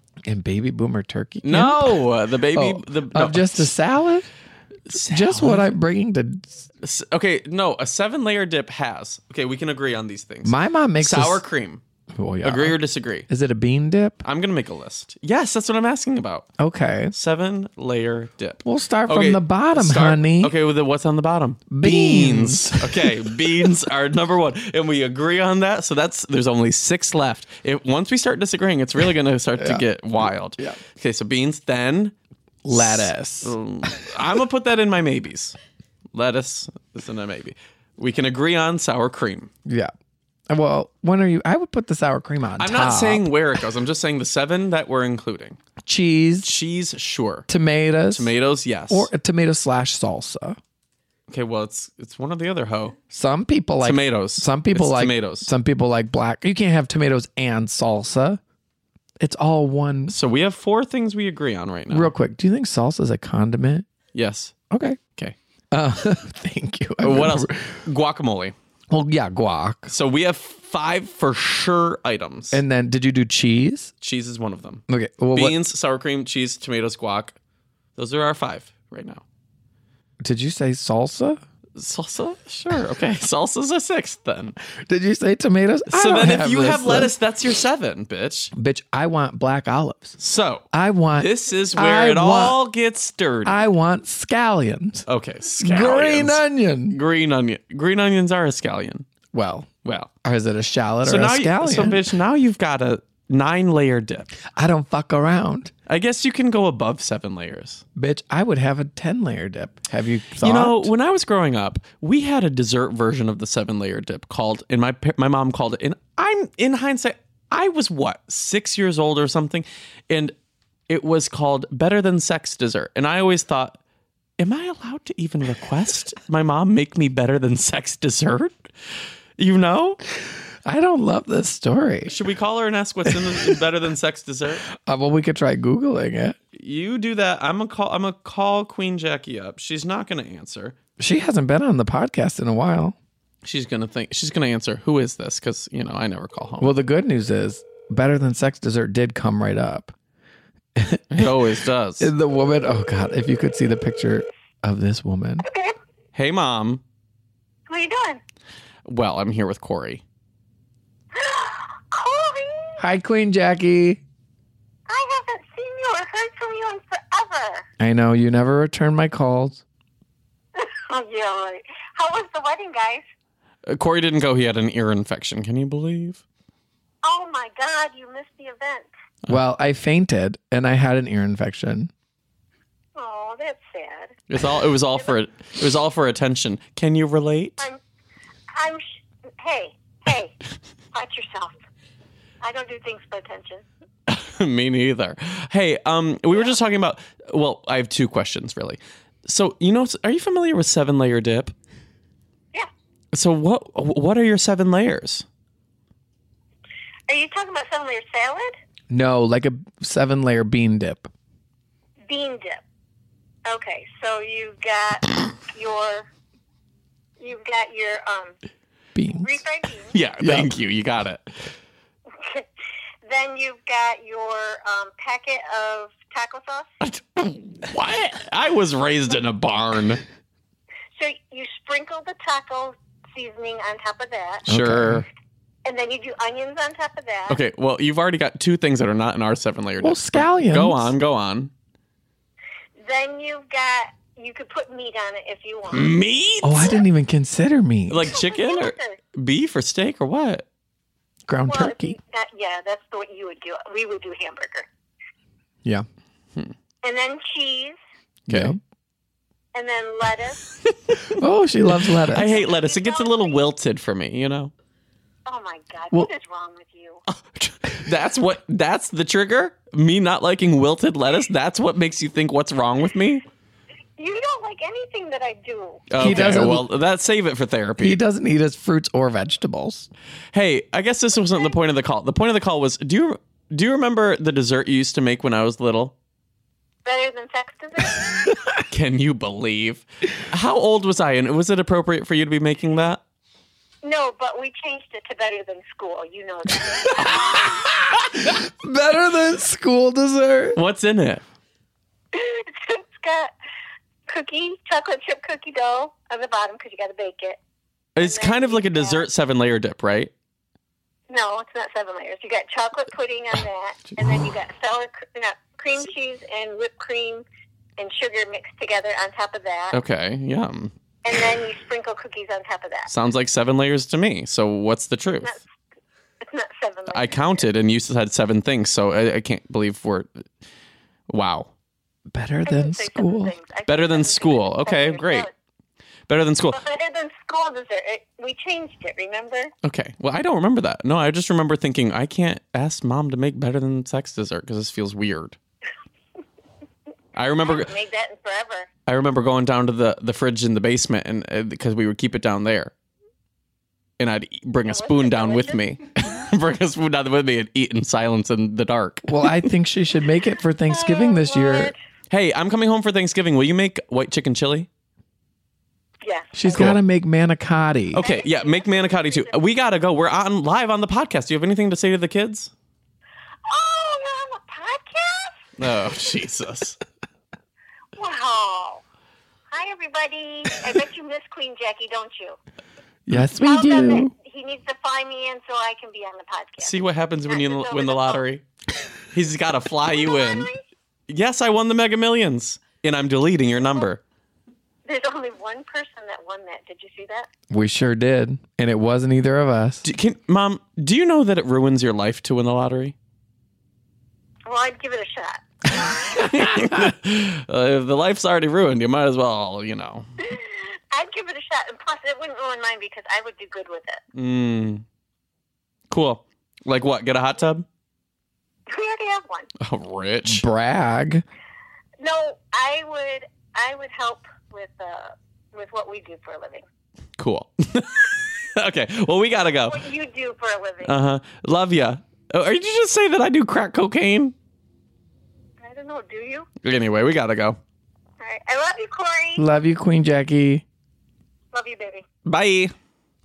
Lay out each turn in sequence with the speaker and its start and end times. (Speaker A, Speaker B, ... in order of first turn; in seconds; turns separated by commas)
Speaker A: 0.2-4.3, Speaker B: 1.4-3.7, Speaker B: 4.9-5.7, Speaker A: 4.9-6.7, Speaker B: 6.8-11.8, Speaker A: 10.4-11.4, Speaker A: 12.2-14.2, Speaker B: 12.4-13.3, Speaker B: 14.2-16.5, Speaker A: 16.6-17.1, Speaker B: 17.1-32.1, Speaker A: 18.6-20.5, Speaker A: 21.7-23.7, Speaker A: 29.6-29.9, Speaker A: 32.6-33.5, Speaker B: 32.7-35.6, Speaker B: 36.1-39.5, Speaker A: 39.7-39.9, Speaker A: 40.5-43.3, Speaker B: 42.6-45.6, Speaker A: 45.8-46.5, Speaker B: 46.4-47.5, Speaker A: 47.5-48.3, Speaker B: 48.1-49.1, Speaker A: 48.9-50.6, Speaker B: 51.3-53.0, Speaker A: 53.1-58.4, Speaker B: 53.8-55.5, Speaker A: 59.2-60.1, Speaker B: 60.1-62.1, Speaker A: 61.9-63.9, Speaker B: 64.1-64.6, Speaker A: 64.7-65.0, Speaker A: 65.7-67.8, Speaker B: 67.0-68.5, Speaker A: 68.9-69.9, Speaker B: 69.9-72.6, Speaker A: 72.5-73.9, Speaker B: 74.0-74.8, Speaker A: 74.9-75.6, Speaker B: 75.3-77.4, Speaker B: 78.0-79.2, Speaker A: 80.2-81.4, Speaker B: 81.8-84.6, Speaker A: 84.8-87.1, Speaker B: 85.9-88.5, Speaker A: 88.5-90.2, Speaker B: 90.2-93.6, Speaker A: 90.7-92.6, Speaker A: 93.5-95.1, Speaker B: 95.1-99.1, Speaker A: 95.6-97.0, Speaker A: 99.3-99.7, Speaker B: 99.8-100.1, Speaker A: 100.2-102.1, Speaker B: 101.0-104.3, Speaker A: 104.5-105.7, Speaker B: 105.9-107.8, Speaker A: 108.0-110.9, Speaker B: 110.4-120.3, Speaker B: 120.9-123.8, Speaker B: 124.4-128.6, Speaker B: 129.4-130.0, Speaker A: 130.7-132.1, Speaker B: 132.1-134.6, Speaker A: 133.1-133.6, Speaker A: 134.8-136.4, Speaker B: 136.5-140.8, Speaker A: 141.0-143.0, Speaker B: 143.4-146.7, Speaker A: 146.6-149.9, Speaker A: 150.8-151.4, Speaker B: 151.1-152.1, Speaker A: 152.0-155.4, Speaker C: 155.4-155.8, Speaker B: 156.2-156.8, Speaker C: 157.7-158.2, Speaker B: 158.9-160.0, Speaker C: 161.1-162.8, Speaker A: 162.8-164.0, Speaker C: 164.9-167.7, Speaker A: 167.8-169.6, Speaker C: 170.6-173.0, Speaker B: 173.7-176.2, Speaker C: 177.0-178.9, Speaker A: 179.3-181.9, Speaker C: 183.0-184.2, Speaker B: 184.3-187.7, Speaker C: 188.5-188.9, Speaker C: 189.4-190.4, Speaker C: 190.9-191.5, Speaker C: 192.4-193.6, Speaker B: 194.1-201.6, Speaker B: 203.1-205.3, Speaker C: 207.1-208.6, Speaker A: 208.9-211.1, Speaker C: 212.1-212.6, Speaker C: 213.5-216.1, Speaker C: 217.2-218.3, Speaker A: 218.9-219.4, Speaker C: 219.2-219.9, Speaker B: 219.9-221.5, Speaker A: 220.2-220.5, Speaker C: 222.1-222.5, Speaker C: 223.1-226.7, Speaker B: 226.8-230.0, Speaker C: 231.0-234.5, Speaker B: 234.5-235.1, Speaker A: 234.5-235.1, Speaker C: 235.7-237.4, Speaker B: 237.3-241.5, Speaker A: 239.8-240.9, Speaker C: 242.8-246.0, Speaker B: 245.7-246.8, Speaker A: 246.4-248.2, Speaker B: 247.9-250.5, Speaker C: 248.1-249.0, Speaker A: 251.3-252.0, Speaker C: 251.5-254.7, Speaker C: 256.8-257.8, Speaker B: 258.3-258.6, Speaker A: 258.3-258.6, Speaker C: 259.5-260.5, Speaker B: 260.7-261.2, Speaker A: 261.2-262.3, Speaker B: 261.7-264.5, Speaker C: 262.2-263.4, Speaker C: 265.3-267.0, Speaker B: 267.1-273.2, Speaker C: 274.0-276.1, Speaker B: 275.9-278.0, Speaker A: 276.0-276.7, Speaker A: 277.8-279.9, Speaker B: 280.3-285.9, Speaker C: 286.9-288.2, Speaker B: 288.6-293.0, Speaker C: 293.8-297.7, Speaker B: 297.0-297.5, Speaker A: 297.0-300.6, Speaker B: 300.6-301.2, Speaker C: 302.1-303.3, Speaker C: 304.1-307.4, Speaker B: 308.0-310.1, Speaker C: 308.0-309.1, Speaker C: 311.1-317.2, Speaker C: 317.8-319.8, Speaker B: 319.7-320.7, Speaker C: 321.1-322.9, Speaker B: 322.9-325.4, Speaker C: 326.2-327.5, Speaker B: 326.9-330.3, Speaker B: 331.1-331.5, Speaker A: 332.1-333.4, Speaker C: 332.4-335.3, Speaker B: 333.7-335.3, Speaker B: 336.1-336.6, Speaker C: 336.5-339.5, Speaker B: 339.6-345.4, Speaker B: 347.1-347.7, Speaker C: 347.4-348.7, Speaker B: 348.9-352.7, Speaker B: 354.0-359.4, Speaker C: 354.7-355.6, Speaker A: 359.0-361.7, Speaker C: 360.7-361.8, Speaker B: 362.1-364.7, Speaker C: 366.0-366.7, Speaker A: 366.4-368.0, Speaker B: 366.5-366.8, Speaker B: 367.9-372.5, Speaker C: 367.9-369.4, Speaker C: 373.5-375.4, Speaker B: 375.6-376.8, Speaker C: 377.9-378.8, Speaker C: 379.5-382.4, Speaker A: 383.1-384.1, Speaker C: 383.4-388.2, Speaker B: 386.6-388.5, Speaker B: 389.1-390.5, Speaker C: 389.9-390.6, Speaker B: 391.1-394.0, Speaker C: 394.9-397.3, Speaker A: 397.5-399.8, Speaker B: 399.8-402.9, Speaker C: 404.5-406.2, Speaker B: 405.8-410.1, Speaker C: 410.2-414.0, Speaker B: 414.1-414.9, Speaker B: 415.9-417.7, Speaker C: 418.7-419.5, Speaker B: 419.6-420.4, Speaker A: 420.3-421.2, Speaker C: 422.0-426.6, Speaker B: 427.2-429.8, Speaker C: 429.7-431.0, Speaker B: 430.8-434.4, Speaker C: 435.6-436.5, Speaker B: 436.6-437.6, Speaker C: 438.2-439.4, Speaker A: 439.4-440.6, Speaker C: 441.5-442.1, Speaker B: 442.2-442.7